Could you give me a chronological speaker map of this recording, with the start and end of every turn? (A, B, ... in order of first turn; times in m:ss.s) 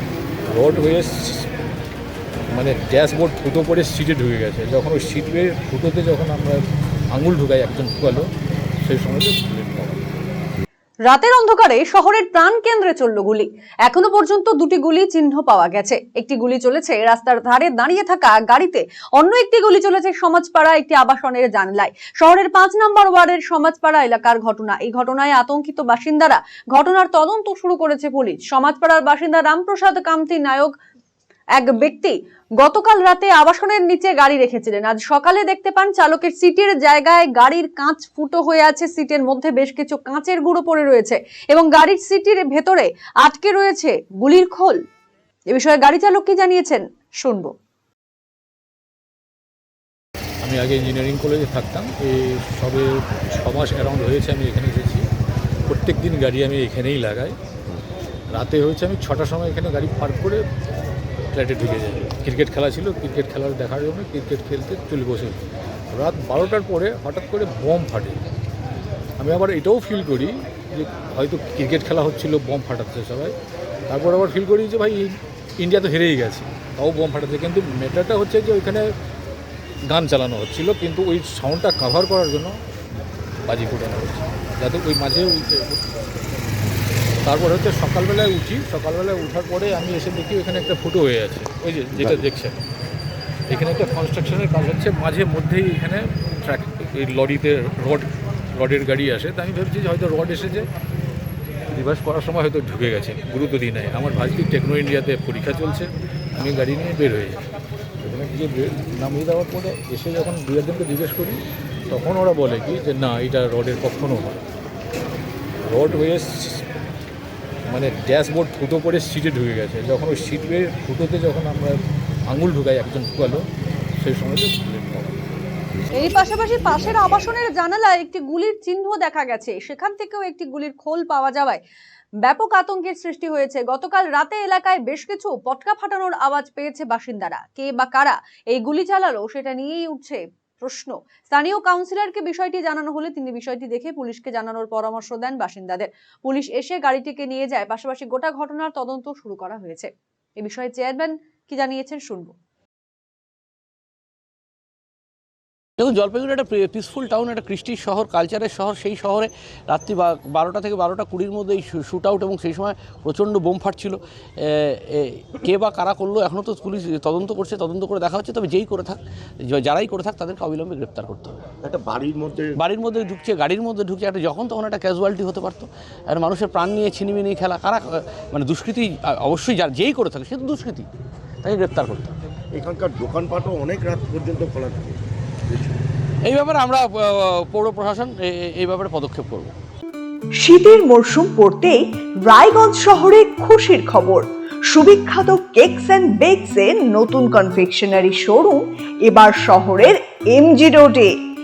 0:00.5-0:01.5 A
0:02.5-0:06.6 A
0:07.1-0:08.2 A
0:08.8-0:10.0 A
0:11.1-0:30.7 B
0:31.6-0:44.8 B
0:45.5-0:47.5 B
0:50.4-0:55.0 A
0:55.7-0:57.4 A
0:58.3-1:00.4 A
1:01.3-1:08.2 A
1:09.2-1:13.3 A
1:13.9-1:18.8 A
1:19.9-1:22.5 A
1:23.4-1:25.8 A
1:27.2-1:32.6 A
1:32.0-1:32.2 C
1:33.5-1:40.7 A
1:41.7-1:47.4 A
1:48.0-1:51.4 A
1:51.9-1:54.4 A
1:55.6-1:56.6 A
1:57.7-2:01.8 A
2:02.3-2:03.4 A
2:04.0-2:05.2 A
2:05.9-2:11.6 B
2:12.2-2:32.3 B
2:35.8-2:44.0 D
2:44.6-2:51.3 D
2:51.6-2:52.6 C
2:52.7-3:00.9 D
3:01.4-3:02.1 D
3:02.5-3:05.8 C
3:06.3-3:09.5 D
3:10.4-3:21.1 E